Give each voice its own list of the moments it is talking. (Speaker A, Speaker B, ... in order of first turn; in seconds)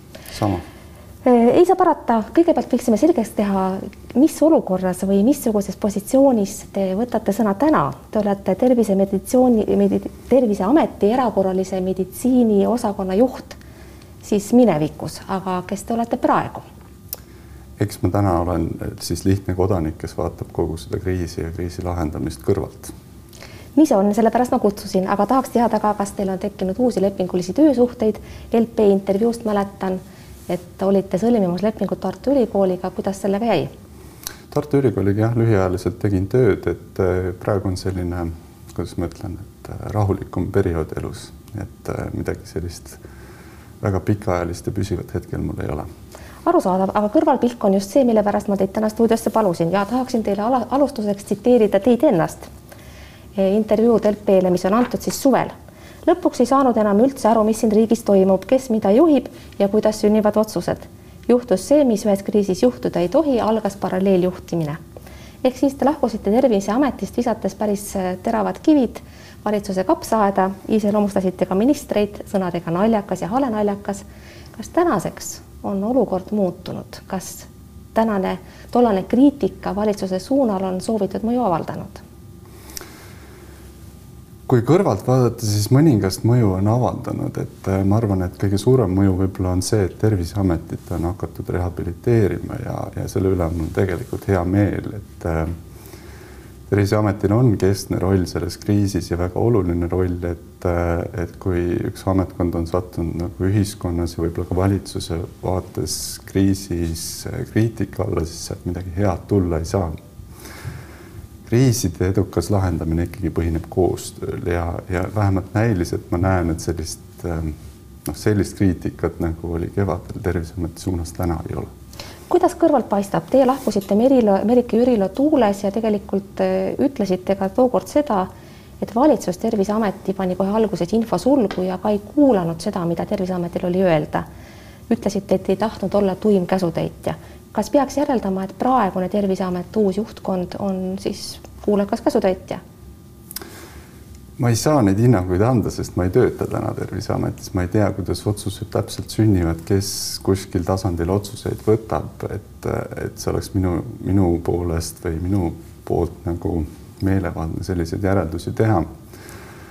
Speaker A: 0.3-0.6, 17.8-22.9, 34.5-43.0, 43.8-45.9, 84.5-95.5, 96.7-110.0, 111.5-117.5, 118.0-121.7, 144.4-158.9
Speaker B: 1.2-13.6, 14.2-16.6, 23.8-33.7, 46.4-52.5, 53.4-55.5, 56.0-64.8, 65.4-74.0, 74.5-82.0, 122.3-128.3, 128.8-134.2, 134.9-142.6